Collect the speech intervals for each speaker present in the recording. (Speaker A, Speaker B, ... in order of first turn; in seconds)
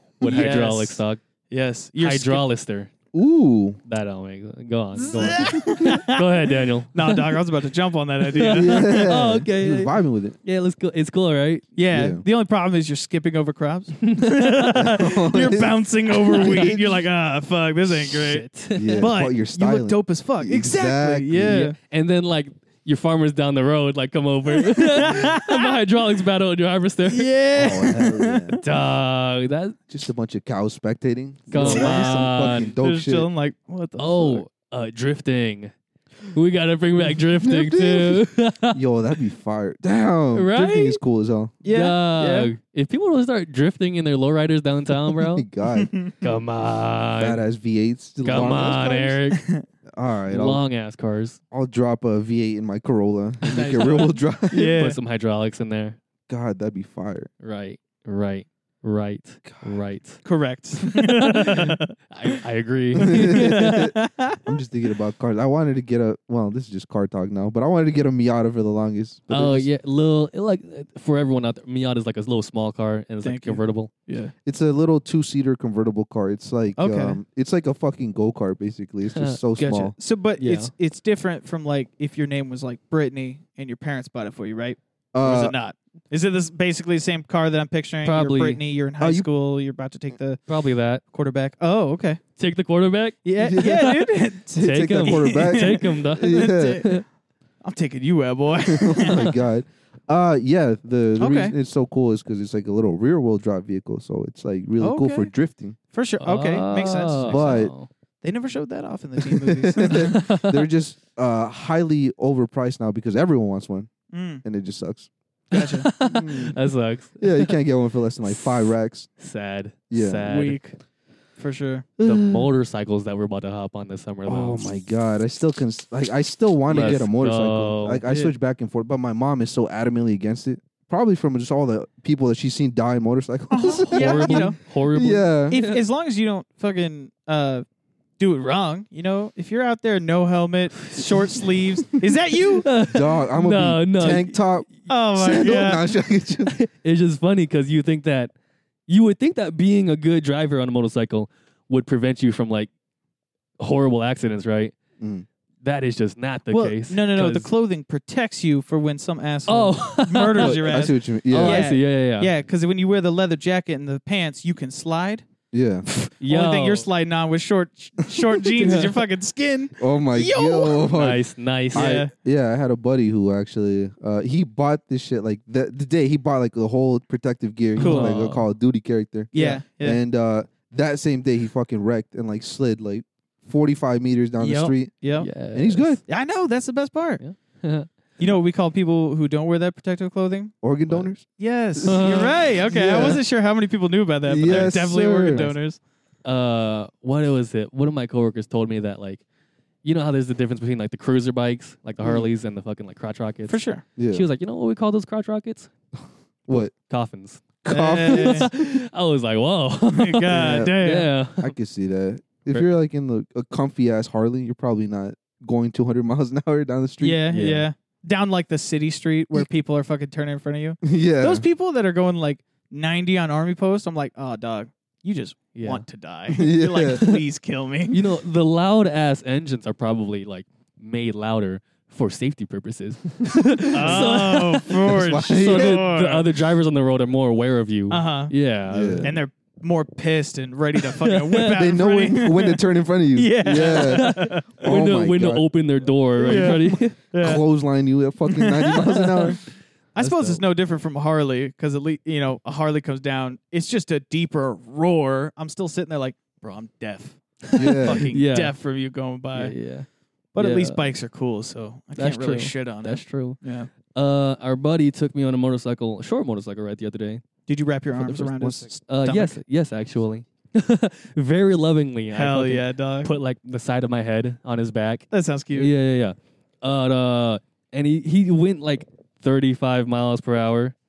Speaker A: 0.2-1.2, 2.0-2.9, 3.8-7.2, 8.3-11.7, 14.0-15.0, 16.3-16.8, 18.1-19.1, 21.4-27.3, 28.6-29.8, 31.5-32.8, 34.0-35.7, 36.3-38.8, 40.3-41.0, 41.7-45.5, 46.2-47.4, 48.2-49.4, 50.3-51.4, 53.4-54.1, 54.7-56.0, 57.4-60.2, 60.9-63.9, 69.3-73.9, 79.1-79.4, 80.4-80.7, 88.0-88.6, 90.5-91.0, 92.4-97.0, 106.2-107.9, 109.9-110.6, 115.5-117.5, 118.2-120.6, 122.0-124.7, 126.7-128.0, 133.9-135.8, 140.9-141.4, 142.6-144.6, 146.4-148.3, 148.9-152.7, 153.6-154.7, 155.6-157.5, 159.5-162.3, 166.0-166.9, 168.5-168.9, 170.9-172.1, 177.8-178.4, 185.2-186.0, 187.2-187.9, 191.8-192.4, 196.2-199.2, 199.8-205.7, 206.5-207.4, 208.0-211.5, 217.3-217.7, 225.5-225.8, 226.9-227.2, 227.9-239.2, 241.0-241.6, 243.5-246.9, 250.0-250.4, 257.5-258.5, 259.3-260.8, 261.9-267.2, 268.0-280.7
Speaker B: 0.2-2.5, 5.0-9.1, 11.8-18.5, 19.0-21.7, 24.5-25.8, 27.1-28.6, 31.5-34.4, 41.6-42.5, 45.7-46.1, 48.3-49.6, 53.5-55.0, 60.2-62.4, 63.0-64.5, 73.2-74.3, 76.8-77.2, 79.6-90.4, 91.1-92.2, 93.2-97.0, 97.6-99.4, 101.2-101.5, 104.8-105.3, 105.9-107.7, 108.2-110.2, 114.1-114.4, 115.5-115.9, 120.2-120.8, 121.4-121.9, 128.0-128.3, 133.5-134.6, 135.5-137.6, 138.2-142.7, 144.9-145.9, 156.5-165.2, 166.2-171.0, 171.7-172.1, 177.8-178.1, 179.3-180.0, 184.4-185.3, 186.1-187.2, 188.2-190.5, 191.4-195.8, 203.5-203.8, 207.7-208.5, 209.9-211.1, 217.0-228.0, 233.7-236.3, 237.9-238.3, 239.0-242.6, 243.1-244.7, 246.2-247.4, 248.3-249.4, 249.9-259.5, 260.3-263.7, 267.5-269.4, 272.1-273.1, 275.1-275.7
Speaker C: 3.1-3.8, 8.4-10.4, 11.9-12.2, 14.7-16.8, 18.7-21.7, 27.5-28.6, 29.9-33.3, 37.4-41.5, 45.2-45.9, 47.2-48.9, 49.9-50.6, 51.5-54.8, 56.3-57.3, 59.5-59.8, 62.9-63.9, 64.5-69.7, 74.4-79.9, 85.1-85.5, 89.0-89.3, 93.4-93.8, 94.6-96.8, 98.6-105.8, 107.2-107.7, 109.3-113.9, 114.4-115.1, 116.0-116.6, 117.2-119.1, 119.9-120.4, 122.0-122.5, 124.2-135.6, 142.8-146.6, 155.0-155.3, 160.4-161.7, 165.5-165.8, 169.8-184.9, 185.5-186.0, 190.6-192.1, 192.7-193.2, 194.2-195.5, 204.0-204.2, 206.5-206.7, 207.6-208.5, 210.3-210.7, 211.4-217.3, 220.8-221.4, 226.3-227.0, 233.7-234.2, 234.8-235.8, 238.7-239.2, 241.5-245.5, 246.1-249.4, 257.6-258.1, 268.4-268.6